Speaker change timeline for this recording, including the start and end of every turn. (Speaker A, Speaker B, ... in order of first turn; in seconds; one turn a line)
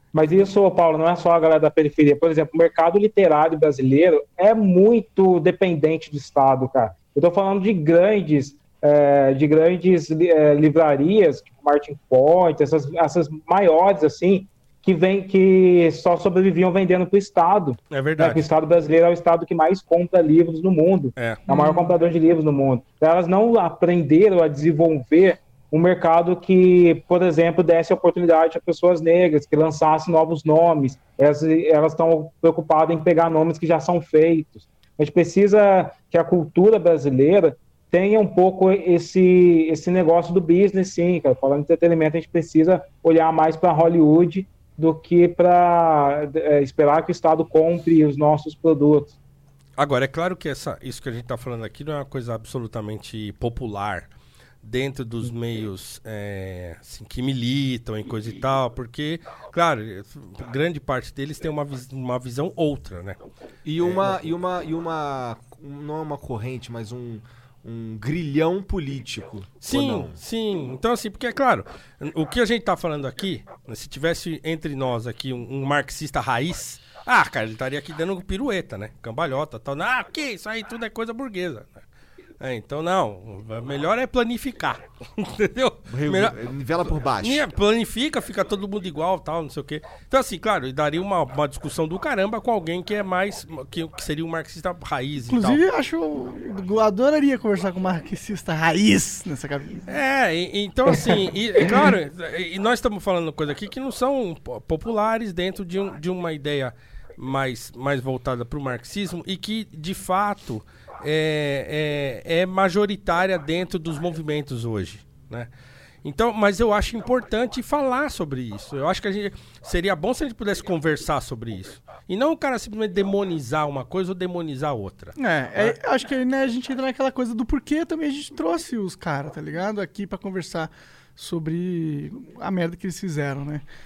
Speaker A: 0.1-49.1
Speaker B: 17.9-18.4
Speaker C: 21.5-21.9
Speaker B: 49.8-54.1
Speaker B: 54.6-63.2
Speaker D: 63.6-70.2
Speaker B: 63.8-64.3
Speaker B: 69.6-81.8
Speaker B: 82.4-86.4
Speaker D: 85.9-87.5
Speaker B: 87.1-95.6
Speaker C: 95.3-99.8
Speaker B: 99.9-115.5
Speaker C: 100.9-101.2
Speaker B: 116.0-125.8
Speaker C: 125.2-133.7